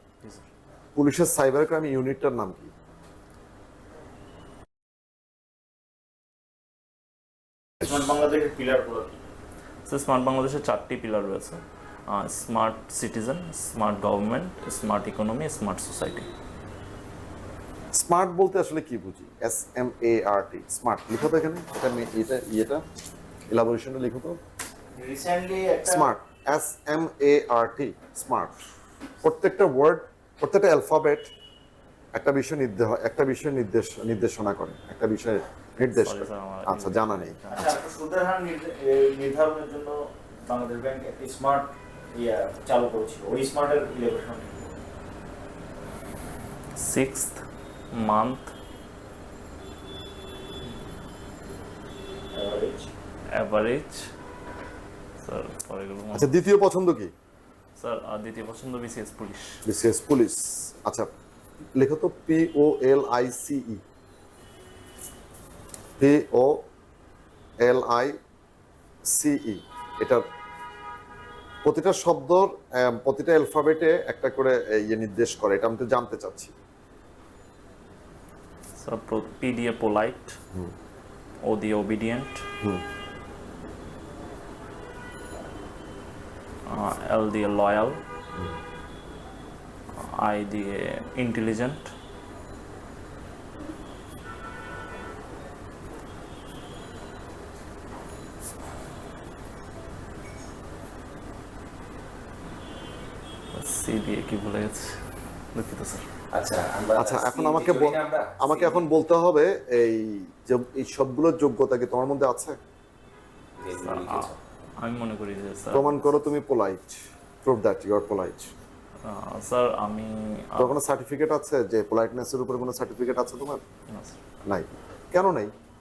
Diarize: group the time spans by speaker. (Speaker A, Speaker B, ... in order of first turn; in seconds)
Speaker A: 0.2-0.5, 9.9-16.3, 36.0-38.0, 46.8-47.4, 47.9-48.5, 53.4-54.1, 55.2-56.4, 57.8-59.6, 78.8-80.4, 81.5-82.4, 86.7-88.0, 90.0-91.9, 103.5-105.0, 105.5-106.0, 113.8-116.2, 119.0-120.8, 123.9-124.2
Speaker B: 0.9-2.7, 17.9-22.8, 23.5-24.4, 25.9-28.5, 29.2-31.3, 32.1-37.4, 56.1-57.1, 59.6-61.1, 61.8-63.8, 66.0-66.7, 67.6-68.2, 69.1-70.2, 71.6-76.5, 107.0-112.6, 115.7-118.5, 120.6-123.6, 124.5-125.5
Speaker C: 7.8-9.1, 25.0-26.1, 37.5-44.8, 52.3-52.9
Speaker D: 106.3-108.9, 113.6-114.4